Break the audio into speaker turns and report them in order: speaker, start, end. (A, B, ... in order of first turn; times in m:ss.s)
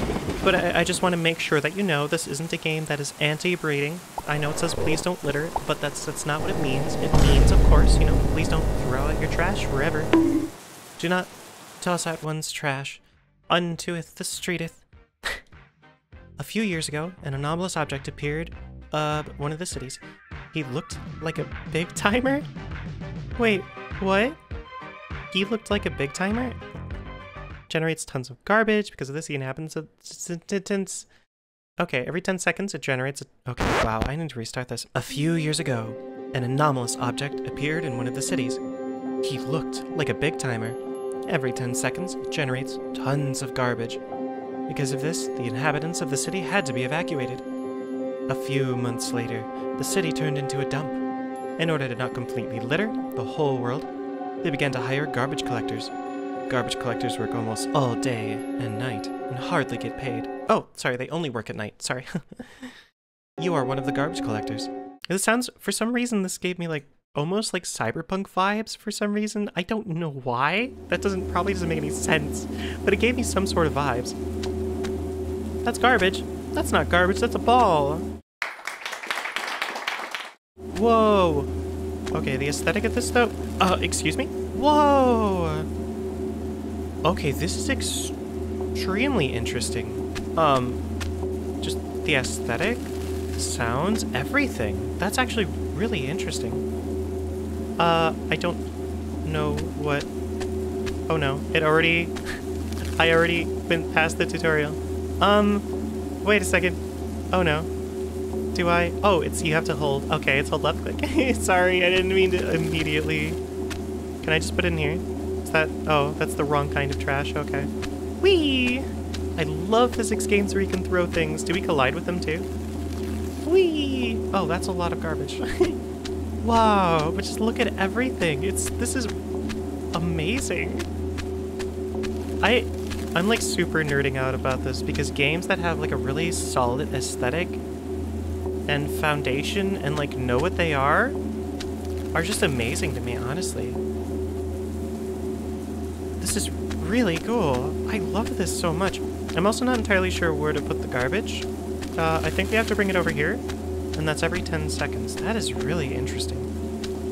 0:00.4-0:10.1 A
0:11.0-0:15.4 A
0:16.4-0:20.0 A
0:20.5-0:22.5 A
0:23.4-0:24.4 A
0:25.3-0:26.6 A
0:27.7-0:31.1 A
0:31.8-0:38.6 A
0:39.2-0:44.0 A
0:44.7-0:47.4 A
0:48.3-0:51.0 A
0:51.6-0:53.9 A
0:54.4-0:55.9 A
0:56.5-1:02.7 A
1:03.4-1:14.2 A
1:15.6-1:18.1 A
1:20.7-1:21.5 A
1:22.1-1:25.7 A
1:27.0-1:28.2 A
1:28.7-1:30.8 A
1:31.6-1:36.6 A
1:37.8-1:38.6 A
1:39.2-1:40.1 A
1:41.1-1:42.2 A
1:43.0-1:45.7 A
1:46.2-1:46.8 A
1:47.3-1:47.7 A
1:48.5-1:53.4 A
1:54.2-1:57.7 A
1:58.2-1:58.8 A
1:59.4-2:02.5 A
2:03.4-2:05.8 A
2:06.4-2:09.2 A
2:09.9-2:10.9 A
2:12.4-2:17.6 A
2:18.7-2:21.2 A
2:22.1-2:23.8 A
2:26.2-2:33.4 A
2:34.0-2:36.5 A